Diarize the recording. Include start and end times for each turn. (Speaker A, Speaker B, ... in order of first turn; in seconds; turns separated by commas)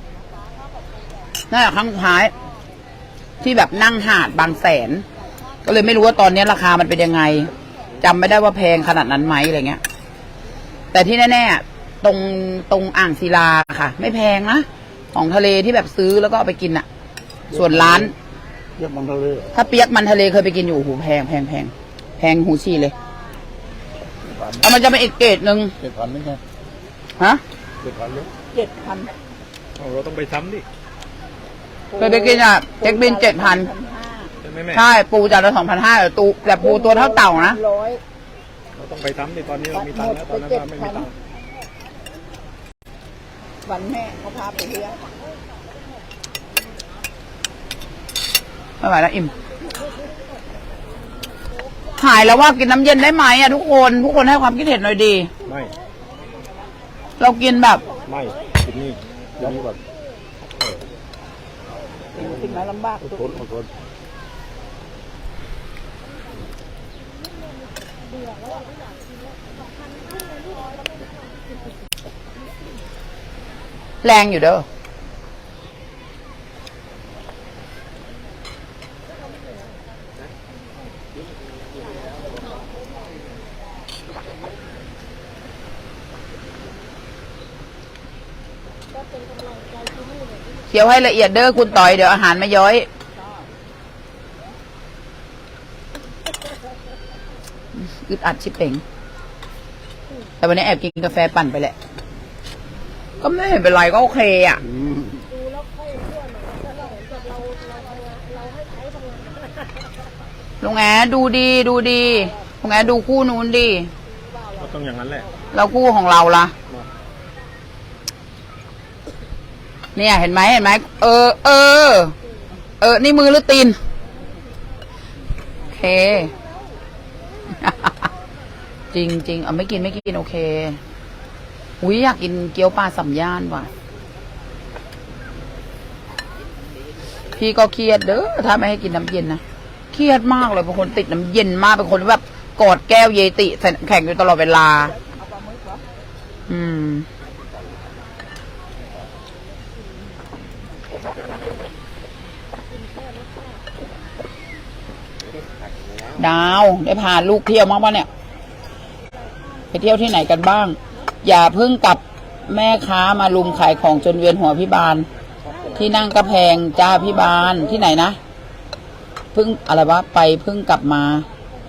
Speaker A: 1.5-2.3, Speaker A: 3.4-5.0, Speaker A: 5.6-9.8, Speaker A: 10.9-16.9, Speaker B: 17.5-18.1, Speaker A: 17.5-18.1, Speaker B: 18.8-19.5, Speaker A: 19.5-22.9, Speaker B: 24.2-24.7, Speaker A: 24.6-25.7, Speaker B: 25.8-26.4, Speaker B: 27.8-28.3, Speaker C: 28.5-29.1, Speaker D: 29.8-30.6, Speaker C: 31.9-34.3, Speaker A: 32.0-33.7, Speaker D: 34.4-34.9, Speaker A: 34.7-37.6, Speaker C: 36.6-38.0, Speaker D: 38.8-41.1, Speaker C: 39.7-41.1, Speaker C: 43.6-45.0, Speaker E: 44.8-45.6, Speaker A: 48.8-49.3, Speaker E: 49.3-50.6, Speaker A: 52.0-55.3, Speaker D: 55.4-55.7, Speaker A: 57.2-57.9, Speaker D: 58.0-59.0, Speaker B: 59.4-59.8, Speaker C: 62.1-63.4, Speaker B: 62.1-63.7, Speaker E: 67.9-71.7, Speaker A: 74.0-74.6, Speaker E: 79.1-79.8, Speaker E: 81.9-83.2, Speaker E: 88.9-90.9, Speaker A: 90.7-92.9, Speaker A: 97.7-98.8, Speaker A: 100.4-101.7, Speaker A: 103.2-104.6, Speaker B: 104.6-105.2, Speaker E: 105.3-109.8, Speaker A: 110.6-113.9, Speaker D: 114.5-115.3, Speaker A: 115.5-116.5, Speaker A: 120.0-122.1, Speaker A: 122.8-123.8, Speaker A: 125.7-126.3, Speaker E: 126.0-126.4, Speaker A: 127.6-128.1, Speaker A: 128.9-130.8, Speaker A: 131.8-133.7, Speaker A: 137.4-139.4, Speaker A: 139.9-144.9, Speaker C: 144.8-145.8, Speaker A: 146.5-147.1, Speaker E: 152.6-153.7, Speaker A: 156.2-158.1, Speaker A: 159.7-165.1, Speaker E: 165.5-165.9, Speaker A: 165.7-168.2, Speaker A: 169.3-171.3